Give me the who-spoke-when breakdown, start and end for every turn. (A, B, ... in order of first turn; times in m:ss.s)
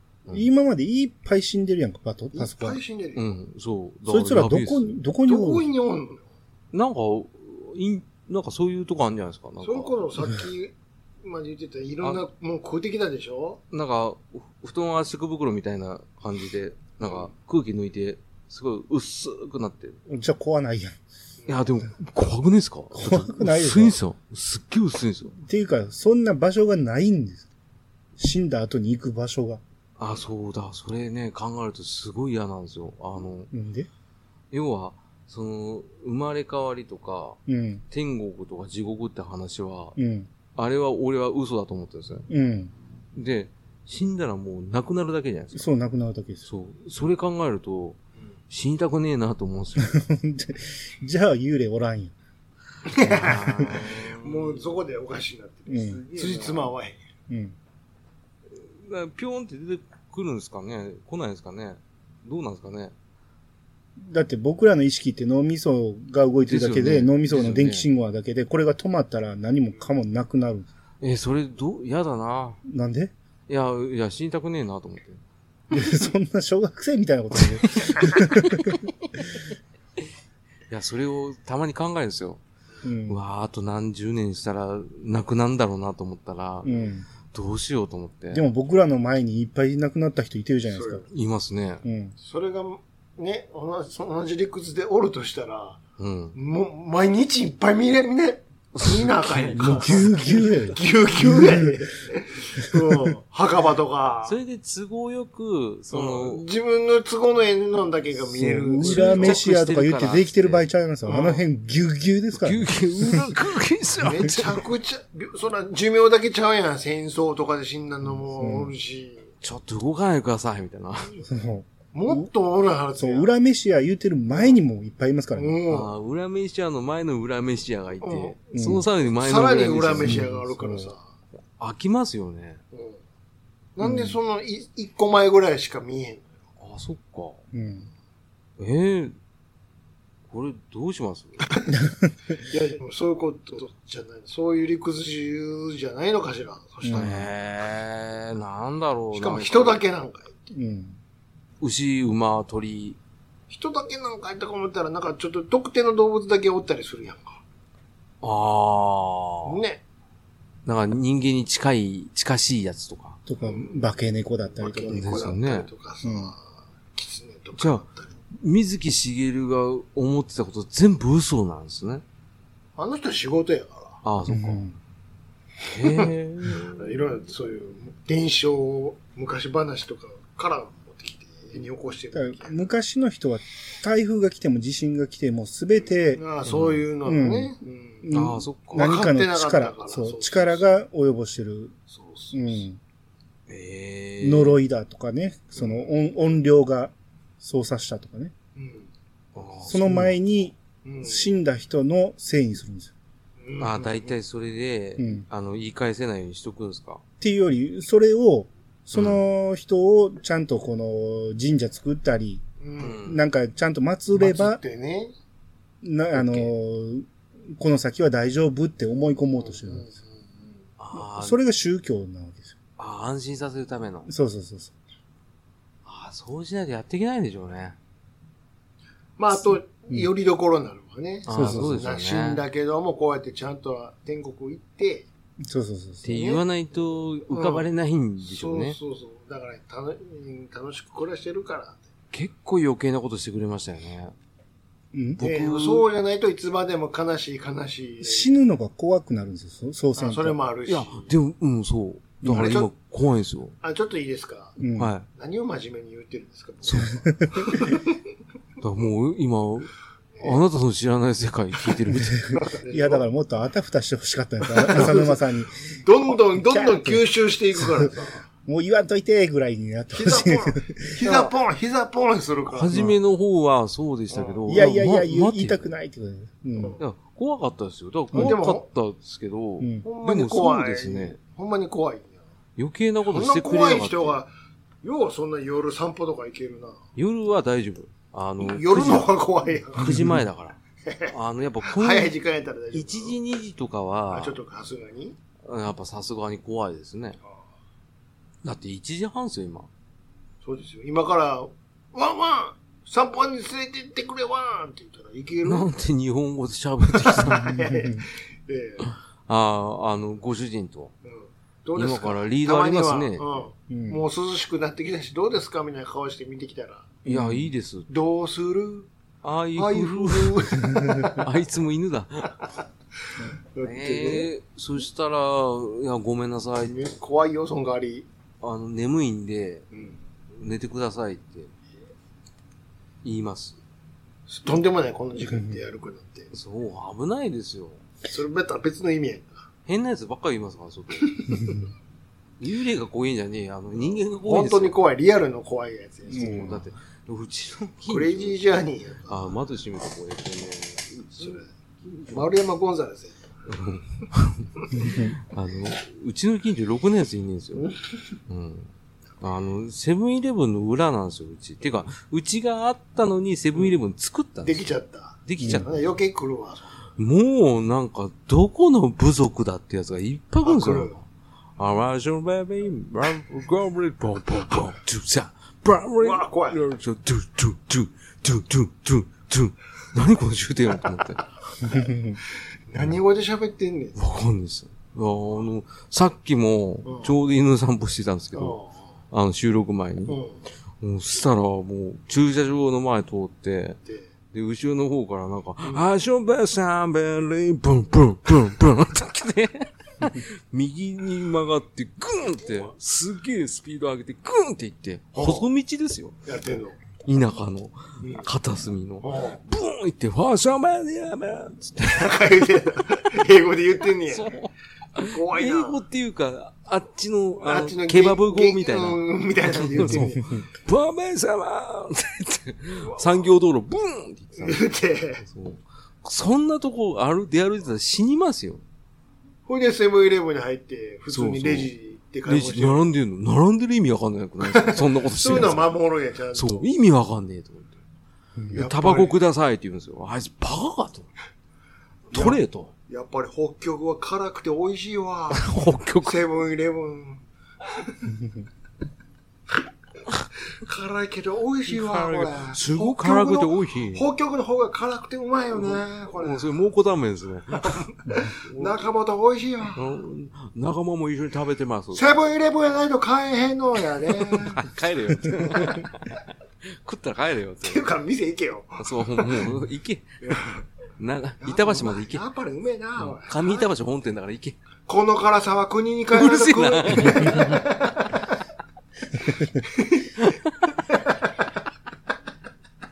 0:00.3-0:02.8 A
0:02.3-0:03.3 B
0:03.2-0:05.0 C
0:04.1-0:05.6 A
0:05.2-0:06.2 B
0:06.7-0:10.1 C
0:09.6-0:13.6 B
0:13.7-0:20.0 C
0:20.1-0:21.0 A
0:21.5-0:25.4 C
0:23.0-0:24.0 A
0:25.4-0:27.4 A
0:28.2-0:29.6 A
0:30.0-0:33.5 C
0:33.5-0:33.9 A
0:34.5-0:37.4 C
0:37.5-0:37.8 A
0:37.9-0:40.0 C
0:40.0-0:40.3 A
0:40.5-0:42.2 C
0:42.3-0:42.7 A
0:43.1-0:45.7 C
0:45.5-0:46.4 A
0:46.4-0:48.0 C
0:48.5-0:50.0 C
0:49.8-0:52.1 A
0:52.9-0:57.0 B
0:53.0-0:54.8 C
0:55.7-0:56.0 A
0:55.8-0:56.7 C
0:57.3-0:57.5 A
0:58.5-1:02.9 C
1:04.0-1:10.7 A
1:06.4-1:07.8 C
1:11.0-1:12.6 C
1:12.6-1:13.1 A
1:13.5-1:15.2 C
1:15.7-1:18.8 A
1:17.4-1:18.4 C
1:20.7-1:22.4 C
1:22.8-1:23.2 A
1:23.1-1:28.4 C
1:26.6-1:27.0 A
1:28.3-1:31.0 A
1:30.7-1:31.0 B
1:31.1-1:31.8 C
1:31.8-1:32.1 A
1:32.2-1:35.8 B
1:36.0-1:36.4 C
1:36.3-1:44.4 B
1:38.7-1:40.2 C
1:39.6-1:41.8 A
1:42.7-1:43.1 A
1:44.2-1:46.4 C
1:45.9-1:49.4 B
1:48.3-1:53.4 A
1:48.8-1:50.6 C
1:51.0-1:51.4 B
1:52.4-1:54.6 C
1:54.0-1:59.3 B
1:58.4-1:58.7 A
1:59.4-2:01.2 C
2:01.2-2:02.3 A
2:01.9-2:03.3 B
2:03.0-2:05.6 A
2:05.3-2:05.9 B
2:05.7-2:10.3 C
2:08.0-2:08.3 B
2:08.5-2:08.8 A
2:09.0-2:11.0 B
2:10.0-2:10.9 A
2:11.6-2:12.6 C
2:12.7-2:13.0 B
2:13.8-2:16.3 B
2:13.8-2:14.2 A
2:16.6-2:17.4 C
2:17.5-2:17.9 A
2:18.6-2:19.1 C
2:20.3-2:21.5 C
2:21.7-2:22.4 A
2:22.5-2:27.1 B
2:26.8-2:27.3 A
2:26.9-2:29.8 C
2:29.1-2:30.4 B
2:30.5-2:31.0 A
2:31.6-2:33.0 C
2:33.5-2:37.4 B
2:38.2-2:39.6 C
2:39.4-2:39.8 B
2:40.6-2:43.2 C
2:43.3-2:45.2 A
2:43.4-2:43.9 B
2:44.6-2:46.4 B
2:44.9-2:45.7 C
2:46.0-2:46.3 A
2:46.9-2:48.1 B
2:47.6-2:52.0 C
2:52.8-2:54.0 B
2:54.0-2:54.6 C
2:54.3-2:54.8 A
2:55.7-2:56.9 C
2:55.8-3:02.7 B
3:02.1-3:06.2 A
3:06.1-3:08.1 B
3:06.4-3:06.8 C
3:07.0-3:11.7 A
3:08.1-3:09.0 C
3:08.7-3:10.7 B
3:11.9-3:12.6 B
3:12.3-3:12.8 A
3:13.5-3:14.6 C
3:14.2-3:18.3 A
3:15.6-3:15.9 B
3:18.5-3:18.9 B
3:19.3-3:20.1 C
3:19.6-3:22.9 A
3:20.8-3:21.3 B
3:23.4-3:24.2 B
3:23.6-3:27.0 C
3:25.0-3:25.2 A
3:27.2-3:34.6 A
3:28.9-3:29.2 C
3:32.6-3:33.0 B
3:32.8-3:33.2 C
3:34.1-3:35.1 B
3:35.8-3:39.8 A
3:36.1-3:36.5 C
3:39.4-3:40.5 B
3:40.8-3:41.4 C
3:40.9-3:42.5 A
3:42.8-3:44.1 C
3:44.1-3:44.7 A
3:45.8-3:47.8 C
3:49.2-3:55.1 B
3:51.2-3:52.4 C
3:51.3-3:51.8 A
3:55.4-3:56.2 A
3:56.0-3:58.8 C
3:56.1-3:56.4 B
3:57.3-3:57.7 B
3:58.2-4:01.8 B
4:02.1-4:04.1 C
4:04.9-4:05.2 A
4:05.2-4:05.9 C
4:05.2-4:08.3 B
4:08.0-4:10.4 A
4:10.0-4:11.1 B
4:10.6-4:13.5 C
4:12.2-4:12.6 A
4:12.2-4:12.7 B
4:13.6-4:14.6 B
4:14.6-4:14.9 A
4:14.8-4:15.1 C
4:15.1-4:18.0 B
4:16.6-4:16.9 C
4:18.6-4:22.3 C
4:21.9-4:27.0 A
4:22.3-4:23.0 B
4:24.5-4:28.2 B
4:27.6-4:27.9 A
4:28.4-4:31.0 A
4:29.9-4:32.9 B
4:32.5-4:35.6 C
4:34.1-4:34.6 B
4:34.5-4:36.8 A
4:36.8-4:41.2 C
4:38.1-4:38.6 B
4:39.6-4:39.8 A
4:39.8-4:42.2 B
4:42.6-4:44.2 C
4:43.0-4:44.3 B
4:44.8-4:46.8 B
4:47.0-4:49.1 C
4:48.4-4:49.9 B
4:49.7-4:50.6 C
4:49.8-4:50.2 A
4:50.8-4:51.1 B
4:51.1-4:52.1 C
4:51.6-4:53.2 B
4:52.7-4:54.4 C
4:54.1-4:55.2 B
4:55.4-4:57.2 C
4:58.4-4:59.7 C
5:00.4-5:05.7 B
5:05.4-5:07.6 C
5:07.0-5:08.9 B
5:07.4-5:08.0 A
5:09.3-5:10.9 C
5:11.0-5:17.0 B
5:11.7-5:13.2 C
5:13.7-5:14.0 A
5:17.0-5:17.5 A
5:17.1-5:17.9 C
5:17.9-5:18.9 B
5:19.2-5:22.5 C
5:19.6-5:21.2 B
5:23.5-5:24.3 B
5:23.6-5:26.8 C
5:26.6-5:28.1 B
5:28.4-5:29.7 C
5:30.3-5:31.5 C
5:33.0-5:33.6 C
5:34.3-5:36.3 B
5:35.3-5:35.6 A
5:36.3-5:37.8 C
5:38.0-5:39.5 B
5:39.6-5:41.2 C
5:41.0-5:41.6 B
5:41.4-5:41.7 A
5:42.4-5:44.8 C
5:44.2-5:46.5 B
5:46.1-5:46.6 A
5:46.1-5:48.4 C
5:47.9-5:49.2 B
5:49.1-5:52.3 C
5:51.2-5:51.4 B
5:52.1-5:53.2 B
5:53.5-5:57.7 C
5:54.7-5:55.1 A
5:57.6-5:58.1 B
5:58.3-6:04.7 C
6:04.4-6:06.8 B
6:05.2-6:05.9 C
6:07.0-6:11.0 C
6:10.4-6:10.9 B
6:11.6-6:21.2 C
6:16.0-6:16.6 B
6:21.6-6:24.0 B
6:21.7-6:22.2 A
6:23.9-6:28.6 C
6:26.8-6:27.1 B
6:28.3-6:28.8 B
6:29.1-6:30.2 C
6:30.1-6:30.4 B
6:30.8-6:33.8 C
6:34.3-6:46.2 C
6:45.1-6:45.5 B
6:46.2-6:46.8 B
6:47.0-6:52.4 C
6:48.0-6:48.3 B
6:49.0-6:49.4 B
6:51.8-6:54.4 B
6:54.1-6:59.0 C
6:55.0-6:55.8 B
6:57.4-7:00.4 B
6:59.5-7:04.6 C
7:02.8-7:03.3 B
7:04.4-7:05.2 B
7:05.2-7:08.6 C
7:09.4-7:12.9 B
7:11.1-7:11.7 C
7:12.2-7:15.7 C
7:14.4-7:16.7 B
7:16.3-7:17.8 C
7:18.5-7:19.1 B
7:18.5-7:21.1 C
7:22.1-7:22.7 C
7:22.1-7:28.1 B
7:25.3-7:26.2 C
7:30.6-7:36.5 B
7:31.7-7:34.1 C
7:35.6-7:38.8 C
7:37.6-7:39.9 B
7:39.8-7:42.0 C
7:41.9-7:44.6 B
7:44.4-7:47.8 C
7:45.4-7:45.8 B
7:47.6-7:49.5 B
7:48.8-7:50.2 C
7:50.2-7:50.6 B
7:51.0-7:52.2 C
7:51.4-7:53.7 B
7:53.0-7:54.6 C
7:54.9-7:58.3 B
7:56.1-7:57.6 C
7:59.6-8:00.2 B
8:00.1-8:00.8 C
8:00.9-8:01.3 B